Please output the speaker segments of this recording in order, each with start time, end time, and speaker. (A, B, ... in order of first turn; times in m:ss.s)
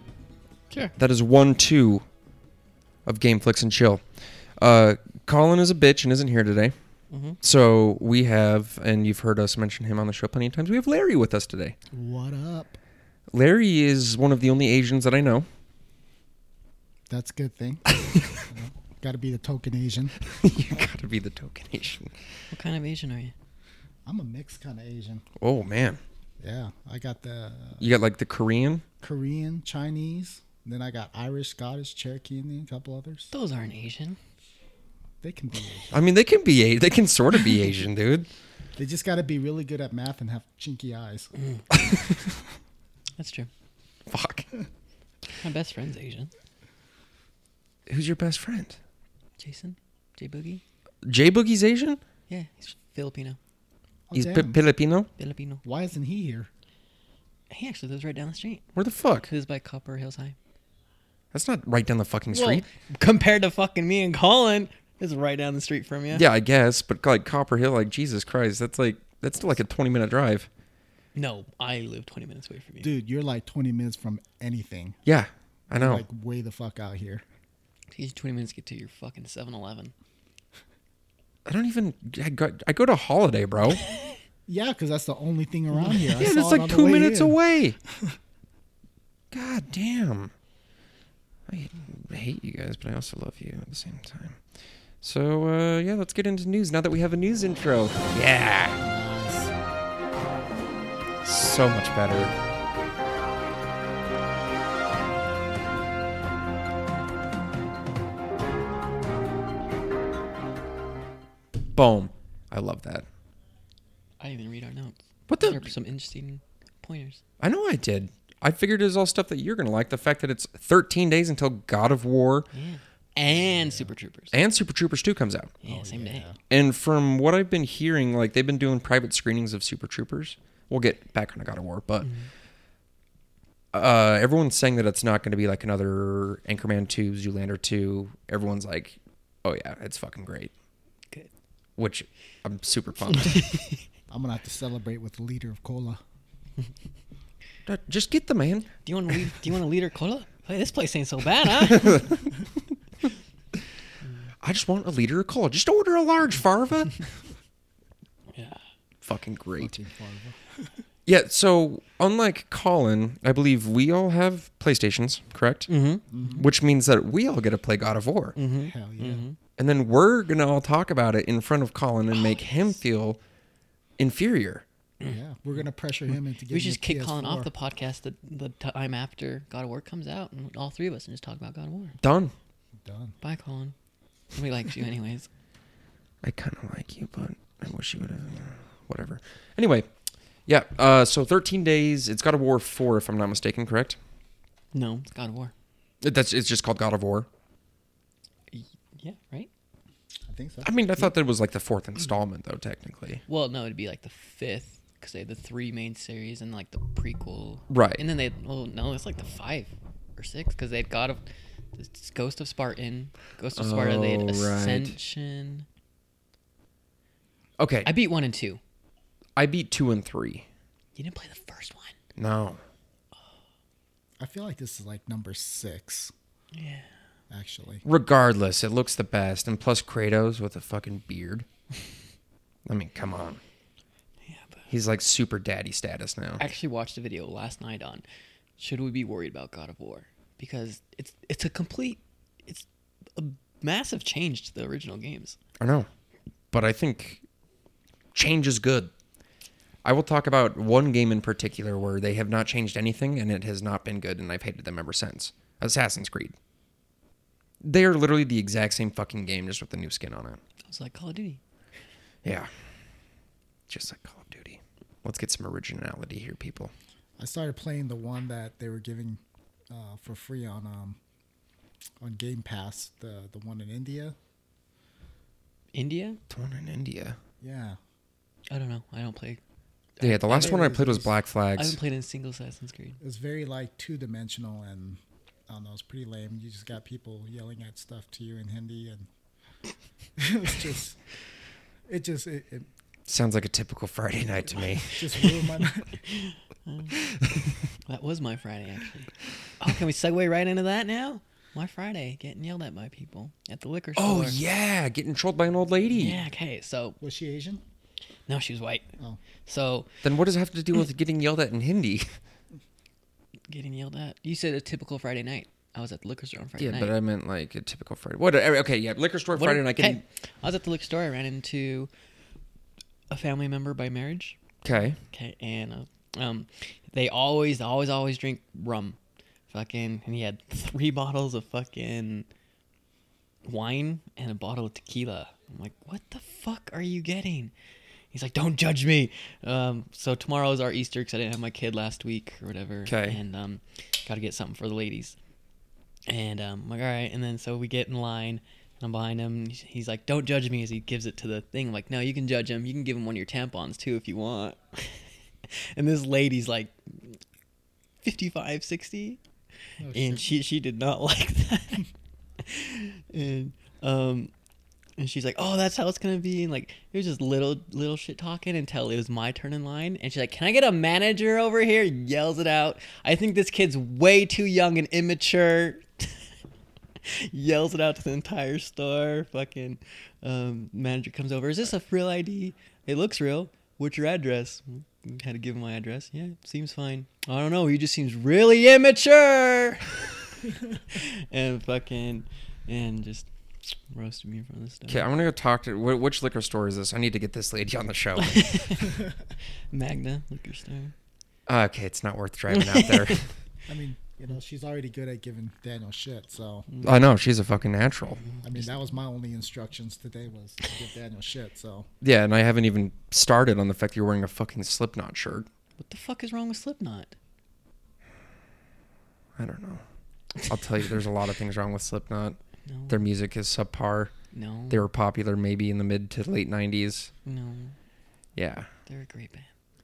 0:01.0-0:02.0 A
0:03.1-0:04.0 A
0:04.6-0:06.7 A
0:07.1-0:07.4 B
0:07.4-0:11.8 A
0:11.9-0:12.8 C
0:13.3-0:15.5 A
0:17.1-0:20.2 C
0:18.2-0:18.4 A
0:20.3-0:22.2 A
0:22.5-0:23.3 B
0:24.1-0:25.3 C
0:25.4-0:26.0 A
0:26.4-0:27.8 C
0:27.8-0:28.8 A
0:29.0-0:33.3 C
0:33.3-0:34.2 B
0:35.2-0:36.0 C
0:35.9-0:38.3 A
0:38.8-0:41.3 C
0:43.2-0:43.5 B
0:44.1-0:44.5 A
0:45.4-0:46.3 B
0:47.9-0:48.8 A
0:49.4-0:50.6 B
0:51.0-0:52.0 A
0:52.3-0:53.4 B
0:54.1-0:54.6 C
0:54.1-0:55.1 A
0:55.2-0:55.6 B
0:55.6-0:56.5 C
0:57.5-0:58.6 B
0:58.8-0:59.3 A
0:59.3-1:00.4 B
1:01.3-1:02.6 A
1:02.3-1:06.3 B
1:06.1-1:10.5 A
1:11.2-1:12.9 B
1:12.8-1:15.0 C
1:15.1-1:16.0 A
1:15.8-1:17.2 C
1:17.9-1:19.9 B
1:21.4-1:23.8 A
1:24.5-1:28.2 C
1:26.2-1:27.8 A
1:29.3-1:30.3 A
1:31.5-1:34.4 A
1:35.0-1:38.8 A
1:38.8-1:39.6 C
1:41.2-1:42.4 A
1:51.7-1:53.1 A
1:54.2-1:57.2 B
1:55.3-1:55.7 A
1:57.4-2:02.5 A
2:02.5-2:04.4 B
2:03.3-2:03.9 C
2:04.3-2:05.6 A
2:05.6-2:06.2 B
2:05.7-2:06.4 C
2:06.5-2:12.1 A
2:13.7-2:20.5 A
2:21.8-2:23.5 A
2:23.2-2:23.8 B
2:24.1-2:26.0 C
2:27.7-2:28.7 A
2:28.8-2:32.2 B
2:34.4-2:37.1 A
2:38.3-2:38.6 B
2:39.0-2:39.7 A
2:39.6-2:40.8 C
2:41.1-2:45.7 A
2:45.7-2:46.4 B
2:46.1-2:46.4 C
2:46.4-2:48.4 A
2:48.4-2:49.4 B
2:48.5-2:49.2 C
2:49.6-2:53.2 A
2:52.2-2:52.4 B
2:54.0-2:54.6 A
2:55.1-2:57.5 C
2:56.5-3:02.0 B
3:02.0-3:02.3 A
3:02.8-3:03.2 C
3:03.2-3:03.8 B
3:04.3-3:05.3 B
3:06.2-3:09.9 A
3:10.5-3:14.0 A
3:14.7-3:15.5 B
3:16.0-3:17.3 A
3:18.5-3:19.5 B
3:20.3-3:20.7 C
3:20.6-3:23.2 A
3:23.3-3:31.2 B
3:27.7-3:28.0 A
3:31.8-3:35.7 B
3:33.6-3:35.0 A
3:37.6-3:37.9 A
3:37.8-3:38.6 B
3:39.4-3:40.5 A
3:41.0-3:42.0 B
3:42.2-3:42.6 A
3:44.2-3:46.1 C
3:46.5-3:46.9 B
3:47.3-3:47.8 C
3:47.8-3:51.5 A
3:52.7-3:53.4 A
3:54.2-3:54.7 B
3:54.7-3:56.4 A
3:56.4-3:58.0 B
3:58.6-4:05.4 B
4:05.6-4:05.9 A
4:06.5-4:07.2 A
4:08.2-4:08.9 A
4:09.8-4:16.4 A
4:17.6-4:20.4 A
4:20.6-4:21.4 B
4:22.2-4:22.5 A
4:23.7-4:26.7 A
4:27.2-4:31.0 C
4:32.0-4:34.2 C
4:35.7-4:36.2 B
4:36.3-4:37.2 A
4:37.4-4:37.8 C
4:38.5-4:39.4 B
4:40.0-4:40.8 B
4:40.0-4:41.8 A
4:40.3-4:41.1 C
4:41.6-4:43.0 B
4:43.0-4:49.1 C
4:50.2-4:51.0 C
4:51.9-4:52.7 C
4:53.1-4:55.3 A
4:55.0-4:56.0 C
4:56.0-4:57.0 B
4:57.9-5:04.4 B
5:04.0-5:06.2 A
5:06.0-5:07.0 B
5:07.0-5:07.6 C
5:08.3-5:08.9 B
5:09.5-5:09.9 B
5:10.0-5:12.2 A
5:13.5-5:16.9 B
5:16.6-5:20.0 A
5:19.3-5:21.9 B
5:23.1-5:24.4 B
5:24.6-5:25.0 A
5:25.1-5:29.0 B
5:29.5-5:32.3 B
5:33.4-5:37.5 B
5:38.1-5:45.2 B
5:42.9-5:43.2 A
5:46.1-5:57.2 B
5:58.0-5:59.2 B
5:59.8-6:00.2 C
5:59.9-6:01.9 B
6:02.4-6:04.3 B
6:05.0-6:16.3 B
6:17.0-6:35.1 B
6:34.9-6:38.6 A
6:38.2-6:39.0 B
6:39.7-6:40.9 B
6:41.5-6:43.3 A
6:42.5-6:43.2 B
6:43.7-6:46.7 C
6:46.8-6:48.2 A
6:48.3-6:48.6 B
6:48.4-6:51.9 C
6:52.0-6:55.5 A
6:55.8-6:57.2 B
6:59.4-6:59.8 A
7:00.4-7:02.4 A
7:02.7-7:03.0 B
7:02.9-7:04.1 A
7:04.3-7:04.9 B
7:04.7-7:07.1 A
7:07.2-7:07.8 B
7:08.4-7:08.7 A
7:08.9-7:09.5 B